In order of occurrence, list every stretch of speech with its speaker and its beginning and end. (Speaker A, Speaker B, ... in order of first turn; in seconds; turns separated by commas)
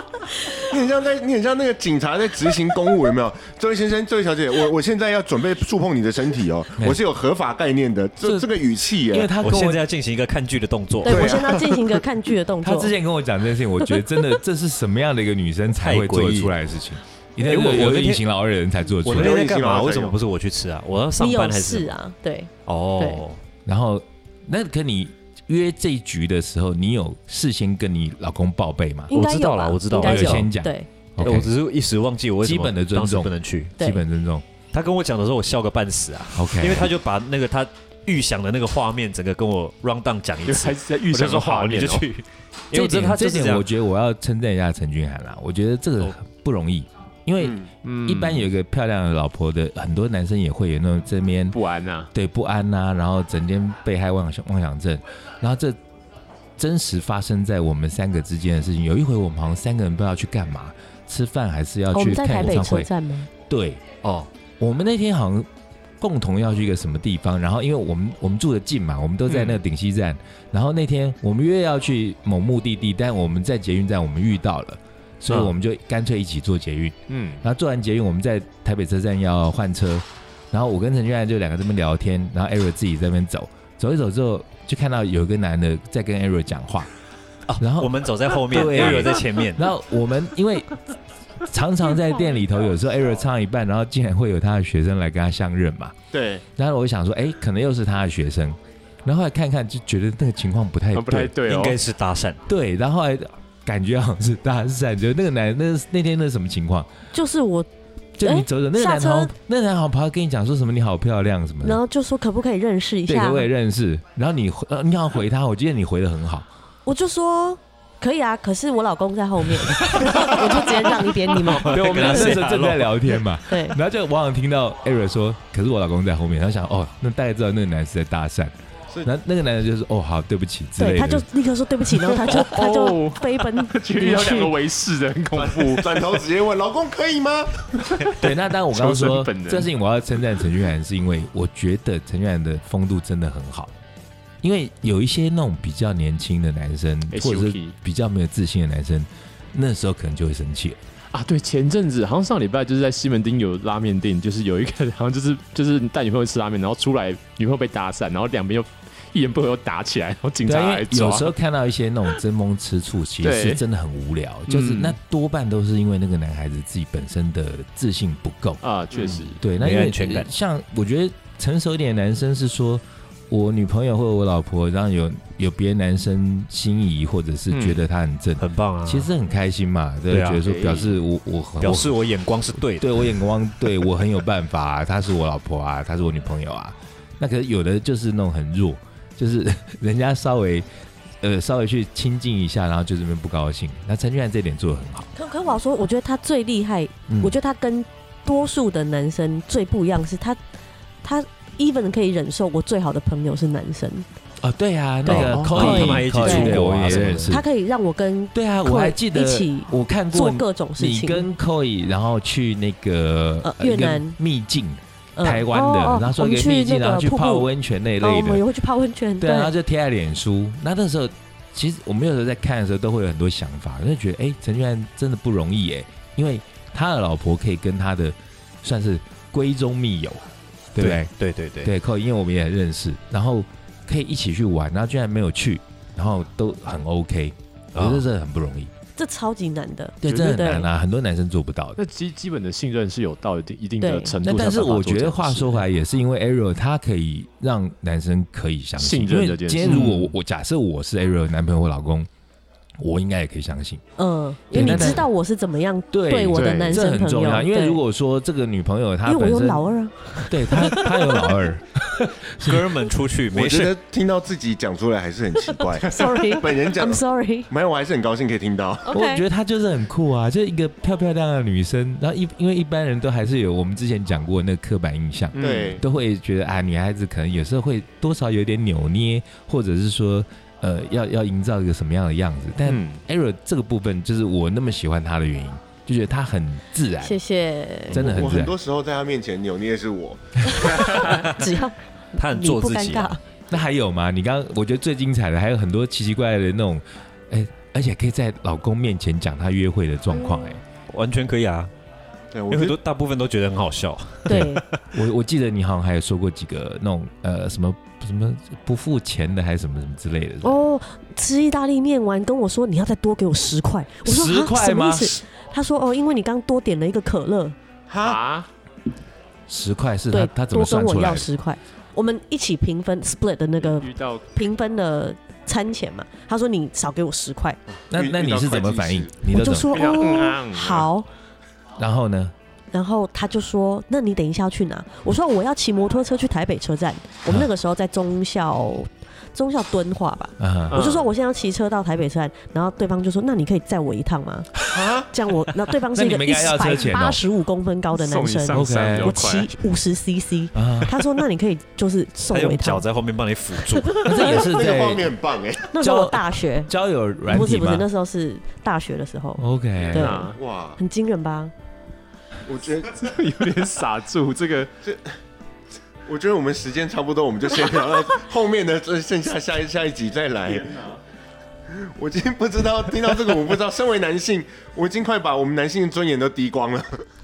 Speaker A: 0.3-0.7, Speaker B: 0.7-9.3, Speaker C: 8.2-8.5, Speaker C: 9.1-9.8, Speaker D: 9.4-11.4, Speaker A: 11.0-12.9, Speaker B: 11.1-12.0, Speaker C: 12.6-19.4, Speaker D: 15.8-16.6, Speaker D: 17.4-18.2, Speaker D: 19.0-21.9, Speaker B: 19.1-20.2, Speaker A: 21.2-23.2, Speaker D: 22.7-23.4, Speaker C: 23.7-29.1, Speaker A: 29.1-30.9, Speaker D: 29.1-30.5, Speaker C: 30.0-31.5, Speaker D: 31.2-33.8, Speaker C: 32.4-34.5, Speaker D: 34.7-43.7, Speaker C: 36.3-36.9, Speaker E: 40.5-42.1, Speaker C: 42.7-51.6, Speaker B: 47.4-47.7, Speaker E: 47.8-48.4, Speaker E: 51.5-52.1, Speaker C: 52.1-55.8, Speaker C: 56.6-62.9, Speaker A: 61.9-63.3, Speaker C: 63.4-63.8, Speaker D: 64.0-64.3, Speaker C: 64.6-65.5, Speaker C: 66.0-86.9, Speaker E: 69.3-69.6, Speaker E: 77.1-77.4, Speaker D: 87.5-89.7, Speaker C: 87.6-90.7, Speaker C: 91.5-95.9, Speaker B: 96.1-96.4, Speaker C: 96.6-101.3, Speaker E: 100.9-101.8, Speaker D: 101.5-102.5, Speaker C: 102.5-106.9, Speaker A: 107.1-107.7, Speaker C: 108.2-111.8, Speaker A: 108.2-109.3, Speaker A: 111.6-113.5, Speaker C: 113.1-116.5, Speaker A: 116.9-122.5, Speaker C: 119.9-120.5, Speaker D: 121.3-123.1, Speaker C: 121.7-128.5, Speaker A: 123.5-123.8, Speaker C: 129.0-131.2, Speaker A: 130.8-134.6, Speaker E: 132.1-136.1, Speaker B: 135.3-137.9, Speaker E: 138.0-139.7, Speaker C: 138.2-143.7, Speaker C: 144.4-150.8, Speaker E: 147.1-147.8, Speaker E: 151.1-161.3, Speaker C: 160.4-168.6, Speaker E: 163.2-163.6, Speaker E: 164.5-165.0, Speaker E: 168.6-169.4, Speaker C: 169.3-182.0, Speaker D: 169.5-170.3, Speaker E: 177.5-177.8, Speaker D: 178.4-179.1, Speaker D: 180.1-180.5, Speaker E: 180.4-181.0, Speaker D: 181.6-183.1, Speaker C: 182.6-190.7, Speaker C: 191.2-195.1, Speaker A: 195.2-200.4, Speaker C: 197.1-197.3, Speaker A: 201.0-204.1, Speaker C: 204.4-207.4, Speaker E: 205.1-205.8, Speaker D: 205.1-207.4, Speaker A: 205.1-211.3, Speaker C: 208.3-218.4, Speaker A: 213.4-214.2, Speaker A: 215.2-217.5, Speaker A: 218.0-219.5, Speaker C: 219.2-231.1, Speaker D: 230.8-231.7, Speaker C: 231.6-238.7, Speaker D: 237.8-238.1, Speaker A: 239.0-240.7, Speaker C: 240.0-241.8, Speaker E: 241.8-245.6, Speaker A: 243.8-244.2, Speaker C: 244.2-252.1, Speaker E: 248.8-250.1, Speaker C: 252.8-253.8, Speaker A: 254.0-257.8, Speaker C: 254.5-255.1, Speaker C: 255.9-259.6, Speaker E: 256.3-256.8, Speaker A: 259.1-261.3, Speaker C: 260.3-262.8, Speaker D: 262.4-263.8, Speaker B: 263.3-269.0, Speaker A: 265.5-267.5, Speaker A: 268.9-269.2, Speaker C: 268.9-287.2, Speaker E: 275.4-275.7, Speaker B: 275.4-275.8, Speaker E: 282.7-283.0, Speaker A: 287.0-288.0, Speaker C: 287.9-288.6, Speaker B: 287.9-291.2, Speaker A: 290.5-293.2, Speaker D: 291.0-291.3, Speaker D: 292.2-293.2, Speaker C: 293.5-300.6, Speaker A: 300.1-300.5, Speaker D: 300.9-301.7, Speaker B: 302.3-302.8, Speaker D: 302.5-304.8, Speaker A: 304.3-304.6, Speaker C: 304.3-310.6, Speaker A: 310.4-317.6, Speaker C: 314.1-315.2, Speaker B: 317.9-318.2, Speaker E: 318.0-318.5, Speaker C: 319.5-321.3, Speaker A: 320.1-327.6, Speaker E: 323.6-324.3, Speaker B: 327.8-329.1, Speaker C: 327.9-330.0, Speaker A: 329.3-331.1, Speaker E: 329.7-330.9, Speaker C: 331.8-332.3, Speaker A: 332.7-352.8, Speaker C: 340.4-340.8, Speaker E: 340.7-341.1, Speaker B: 344.7-345.1, Speaker C: 345.7-347.2, Speaker E: 347.9-349.6, Speaker C: 348.5-349.1, Speaker C: 350.5-350.9, Speaker D: 352.3-354.2, Speaker A: 353.9-354.5, Speaker C: 354.0-355.1, Speaker B: 354.1-355.7, Speaker A: 355.7-356.7, Speaker C: 355.8-357.9, Speaker A: 357.2-361.5, Speaker C: 359.4-360.2, Speaker E: 359.9-360.4, Speaker B: 360.3-360.8, Speaker B: 362.5-363.1, Speaker E: 362.9-364.7, Speaker B: 364.8-365.1, Speaker B: 366.1-371.0, Speaker B: 371.7-377.0